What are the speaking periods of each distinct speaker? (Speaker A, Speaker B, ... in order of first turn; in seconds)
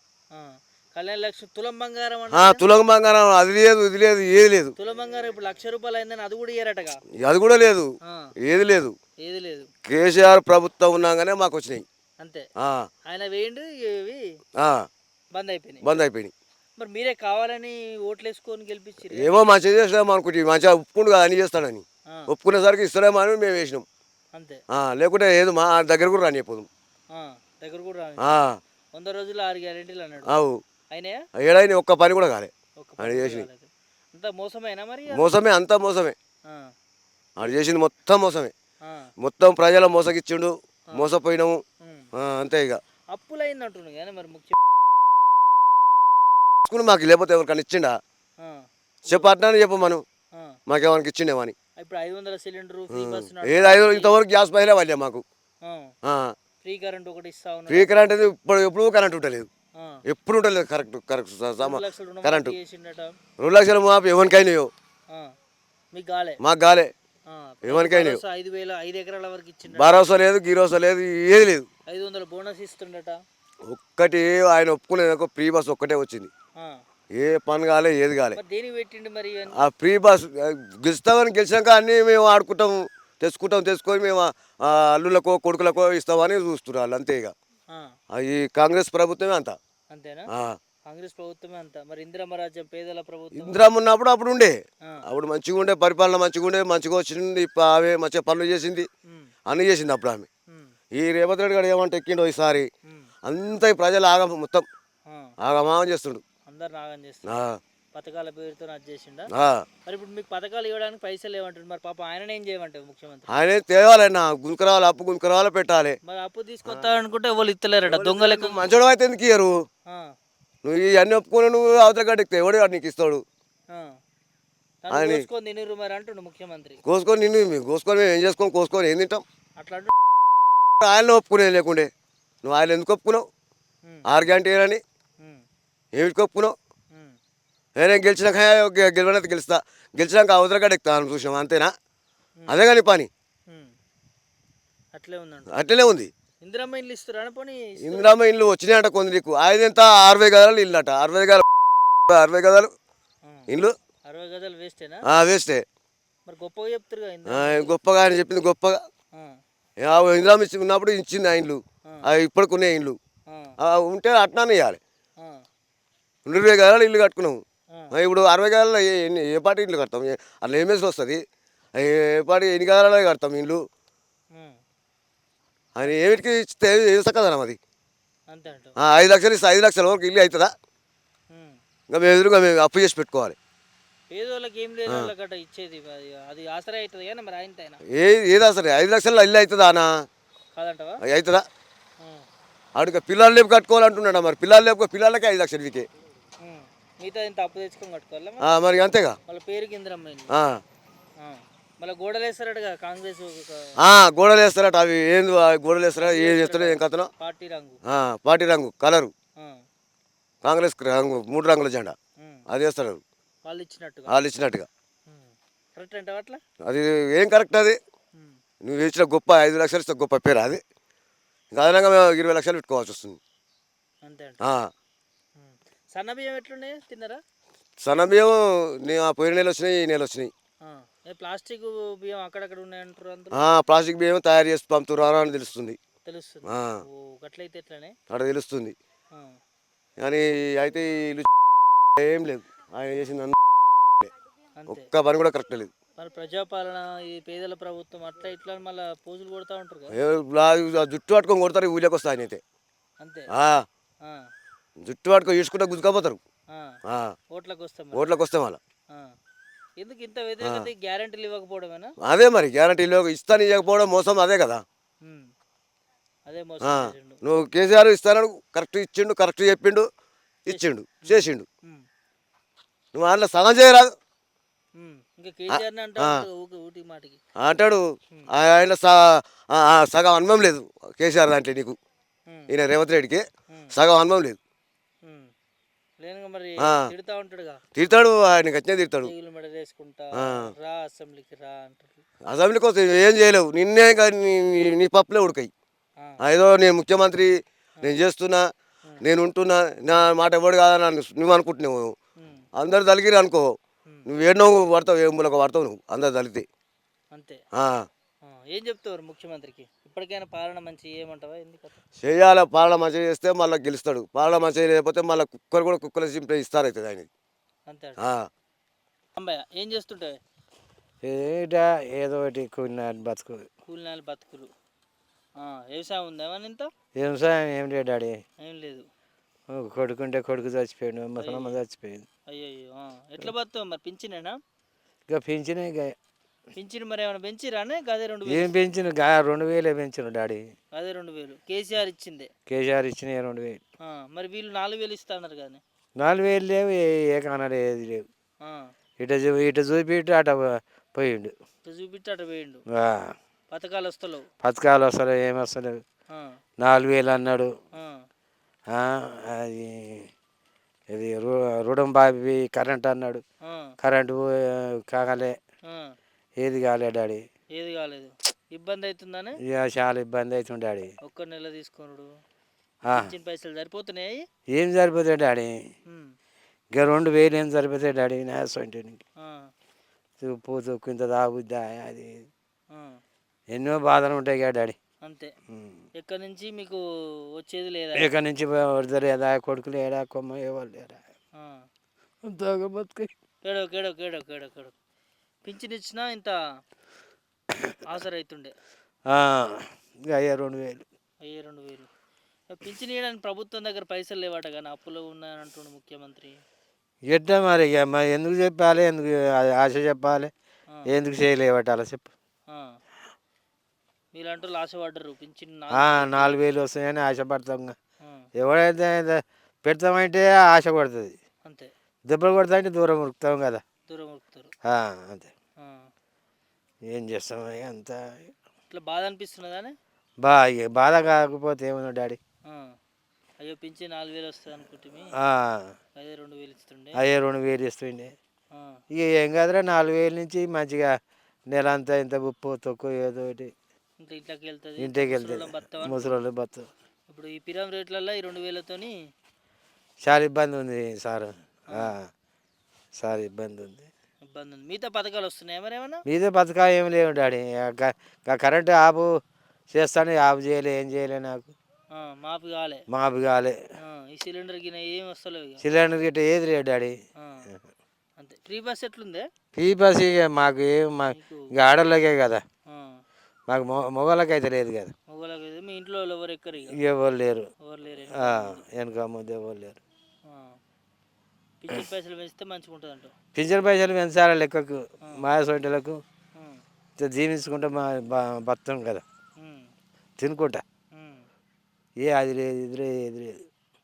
Speaker A: 0.3-2.6, 4.8-7.0, 8.0-8.3, 9.2-9.7, 12.2-12.4, 13.1-14.2, 15.3-16.0, 16.8-19.4, 24.3-24.6, 27.1-28.3, 28.9-30.4, 30.9-31.2, 32.8-35.3, 36.5-36.7, 38.8-39.1, 41.8-42.1, 43.1-44.5, 48.4-49.3, 50.3-50.6, 51.8-54.1, 55.6-55.9, 56.6-58.1, 59.8-60.0, 61.6-63.2, 65.9-66.4, 67.3-70.0, 71.9-73.2, 78.3-79.6, 89.9-90.3, 90.8-93.6, 99.0-99.3, 100.5-100.7, 105.1-105.3, 106.5-107.4, 107.9-109.3, 109.8-113.3, 116.0-118.6, 119.9-120.1, 123.7-124.0, 124.8-126.8, 129.6-129.9, 136.9-137.2, 143.5-143.7, 144.9-145.5, 146.4-148.1, 154.1-155.0, 156.3-157.7, 159.1-159.4, 163.3-163.6, 165.2-165.4, 178.3-178.7, 181.3-181.6, 184.1-187.8, 190.5-191.0, 196.4-198.5, 199.3-200.3, 201.2-203.8, 206.0-207.8, 209.4-209.6, 212.2-212.4, 213.4-214.2, 215.1-216.4, 224.0-224.4, 225.4-227.2, 230.6-233.4, 236.0-237.9, 239.1-239.4, 244.6-244.9, 246.0-249.9, 253.0-253.3, 254.0-254.3, 256.5-256.8, 257.3-258.1, 259.8-261.9, 265.0-265.3, 266.3-267.2, 270.5-271.9, 274.8-277.2, 282.3-282.5, 285.0-285.3, 286.0-287.6, 289.0-292.0, 302.2-302.4, 307.1-307.4, 308.2-311.8, 317.7-318.0, 319.1-320.1, 323.7-324.5, 325.4-326.7, 328.4-328.9, 331.2-331.6, 332.3-334.4, 336.5-338.6, 340.7-342.3, 343.8-345.6, 348.4-348.7, 351.6-352.6, 353.5-354.2, 356.1-356.4, 357.7-358.0, 363.4-363.7, 365.7-365.9, 367.5-369.4, 371.0-372.1, 372.9-374.2, 375.9-376.1, 379.2-379.5, 382.7-383.0, 385.0-385.3, 386.0-386.8, 387.4-388.1, 391.4-391.6, 393.4-394.7, 395.4-396.3, 397.9-398.5, 401.2-401.9, 402.5-406.4, 412.5-412.8, 414.1-416.5, 418.0-418.3, 421.4-421.7, 423.9-424.5, 425.6-425.9, 428.7-429.7, 432.4-432.8, 433.4-435.1, 436.0-437.0, 438.5-438.8, 444.0-446.1, 447.1-448.9, 454.3-456.0, 461.9-462.8, 463.8-465.6, 467.2-467.5, 468.2-469.3, 471.1-471.5, 472.7-473.0, 475.1-476.8, 477.6-478.6, 480.2-480.6, 481.6-483.1, 486.3-486.6, 489.4-489.7, 490.9-491.2
Speaker B: 2.3-4.7, 7.2-7.9, 8.4-8.9, 9.8-11.8, 12.6-12.9, 14.6-14.9, 15.8-16.3, 19.1-23.8, 24.7-26.7, 28.2-28.6, 30.3-30.6, 31.4-33.5, 35.1-36.1, 37.4-38.5, 39.2-41.6, 42.1-42.8, 46.6-48.0, 49.0-50.0, 50.7-51.5, 52.9-55.2, 56.0-56.3, 57.7-59.5, 60.1-62.5, 63.4-64.7, 66.4-66.9, 67.7-68.2, 69.7-71.7, 73.7-76.3, 77.1-78.4, 79.6-87.3, 88.1-89.6, 90.3-90.6, 93.4-98.9, 99.5-100.3, 100.9-102.7, 103.2-104.7, 105.4-106.2, 107.3-107.6, 109.3-109.7, 113.3-116.0, 117.8-119.5, 120.6-123.2, 124.9-125.2, 126.8-129.2, 130.8-131.9, 132.4-133.2, 134.1-134.8, 135.9-136.5, 137.8-141.7, 142.5-143.1, 145.5-146.1, 147.8-151.4, 152.1-152.7, 153.5-153.8, 155.1-155.6, 157.3-158.8, 159.8-163.0, 163.6-164.8, 166.2-167.4, 167.9-171.2, 171.8-173.6, 175.8-177.6, 178.8-180.5, 181.9-183.3, 187.9-189.9, 191.1-191.4, 192.7-195.9, 198.4-199.2, 200.3-200.6, 203.8-207.1, 207.9-209.1, 210.4-211.9, 212.5-213.0, 214.1-214.7, 216.7-217.8, 218.6-220.6, 221.5-223.2, 224.4-224.7, 227.8-230.3, 233.3-235.8, 236.5-236.8, 238.1-238.7, 240.0-241.3, 242.0-243.4, 244.7-245.7, 249.9-252.4, 253.3-253.6, 254.8-256.2, 256.9-257.1, 257.9-258.6, 262.0-264.6, 266.6-269.9, 270.4-271.4, 272.9-273.9, 275.5-276.2, 277.4-277.8, 278.3-281.8, 282.5-284.4, 287.8-289.1, 290.2-290.5, 292.2-295.5, 296.2-297.3, 297.8-298.4, 299.0-301.9, 302.6-303.4, 304.1-306.4, 307.5-307.8, 312.0-317.1, 318.0-318.3
Speaker C: 321.0-323.5, 326.9-328.2, 329.5-332.1, 335.1-335.9, 338.3-340.4, 342.5-343.6, 346.0-348.1, 349.0-351.3, 352.7-353.1, 354.4-355.8, 356.6-357.5, 358.7-360.1, 360.9-363.2, 363.8-365.4, 366.4-367.2, 369.4-370.9, 374.5-375.7, 376.7-379.0, 380.2-382.3, 383.5-384.8, 385.5-385.8, 388.0-391.0, 392.2-393.1, 399.1-400.8, 407.1-410.3, 410.9-412.1, 415.7-417.8, 418.4-421.1, 422.1-423.6, 424.6-425.3, 426.9-428.3, 430.2-432.2, 435.2-435.7, 437.0-438.1, 438.9-440.9, 441.5-443.5, 444.8-446.7, 450.0-452.1, 453.0-453.9, 456.1-459.1, 459.7-461.5, 462.9-463.6, 465.6-466.9, 469.5-472.4, 473.5-474.9, 476.7-477.5, 478.1-479.8, 483.3-486.0, 487.0-489.0, 490.2-490.6, 492.0-493.4